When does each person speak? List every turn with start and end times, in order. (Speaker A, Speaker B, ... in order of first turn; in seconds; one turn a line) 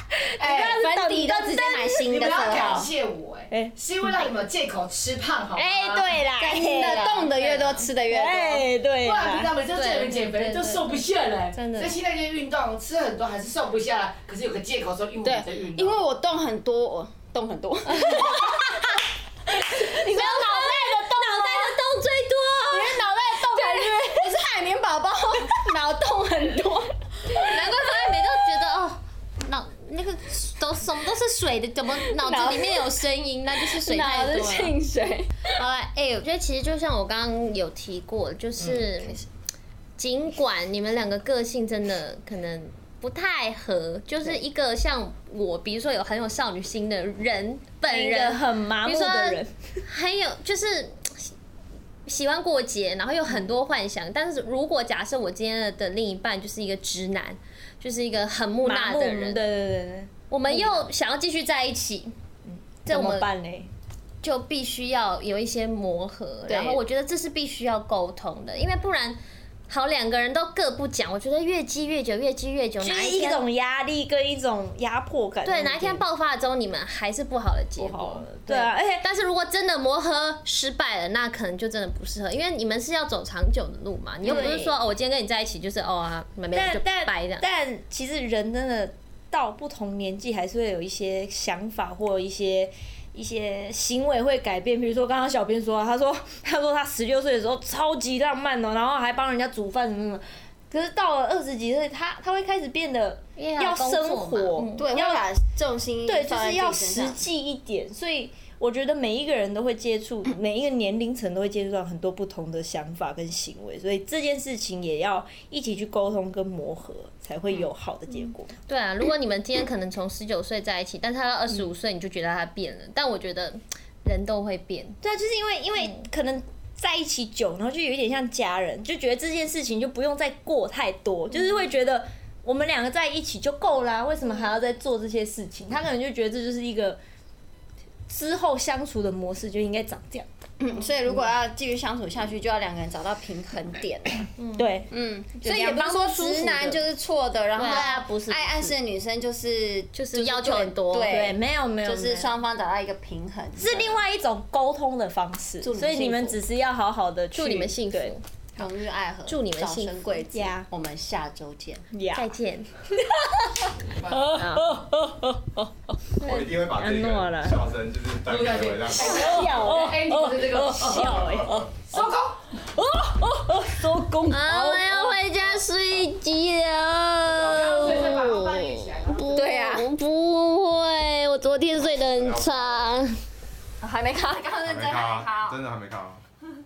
Speaker A: 0.2-2.1
Speaker B: 0.4-2.9
Speaker C: 2.0-6.2
Speaker A: 3.5-4.3
Speaker A: 5.5-7.3
Speaker B: 6.3-8.7
Speaker D: 6.7-7.9
Speaker A: 8.1-9.6
Speaker C: 9.0-16.0
Speaker D: 9.7-11.9
Speaker B: 15.2-18.7
Speaker D: 17.9-18.9
Speaker D: 19.6-24.2
Speaker B: 19.9-21.7
Speaker B: 22.7-26.9
Speaker D: 27.3-34.7
Speaker B: 32.0-32.8
Speaker B: 33.7-35.4
Speaker D: 35.5-39.2
Speaker D: 40.0-51.3
Speaker A: 47.8-49.8
Speaker D: 52.0-59.4
Speaker A: 58.6-60.9
Speaker D: 60.3-62.1
Speaker A: 62.5-63.7
Speaker D: 62.9-63.3
Speaker D: 64.2-73.4
Speaker B: 66.5-66.8
Speaker A: 72.8-76.0
Speaker D: 75.4-87.5
Speaker A: 77.8-79.0
Speaker A: 84.2-84.7
Speaker A: 86.5-105.2
Speaker D: 103.4-104.9
Speaker B: 104.8-107.2
Speaker A: 106.0-118.5
Speaker D: 118.7-125.0
Speaker A: 125.0-137.0
Speaker A: 138.1-140.3
Speaker B: 140.6-144.3
Speaker D: 144.4-144.7
Speaker A: 144.6-144.9
Speaker B: 144.9-154.0
Speaker A: 145.4-146.8
Speaker D: 147.5-148.7
Speaker A: 147.6-148.0
Speaker D: 149.9-151.2
Speaker A: 151.1-152.4
Speaker A: 153.6-158.1
Speaker B: 155.6-156.4
Speaker D: 157.3-158.6
Speaker B: 158.6-161.8
Speaker D: 159.3-160.2
Speaker A: 160.3-160.7
Speaker A: 161.9-162.3
Speaker D: 162.1-162.7
Speaker A: 163.2-167.7
Speaker C: 163.9-164.4
Speaker B: 164.4-164.7
Speaker E: 166.2-169.1
Speaker C: 168.2-172.5
Speaker A: 168.9-175.3
Speaker E: 171.2-171.6
Speaker D: 174.3-183.2
Speaker C: 177.3-179.4
Speaker A: 177.7-178.2
Speaker B: 179.3-179.9
Speaker E: 182.2-182.5
Speaker B: 183.8-185.6
Speaker E: 184.6-186.2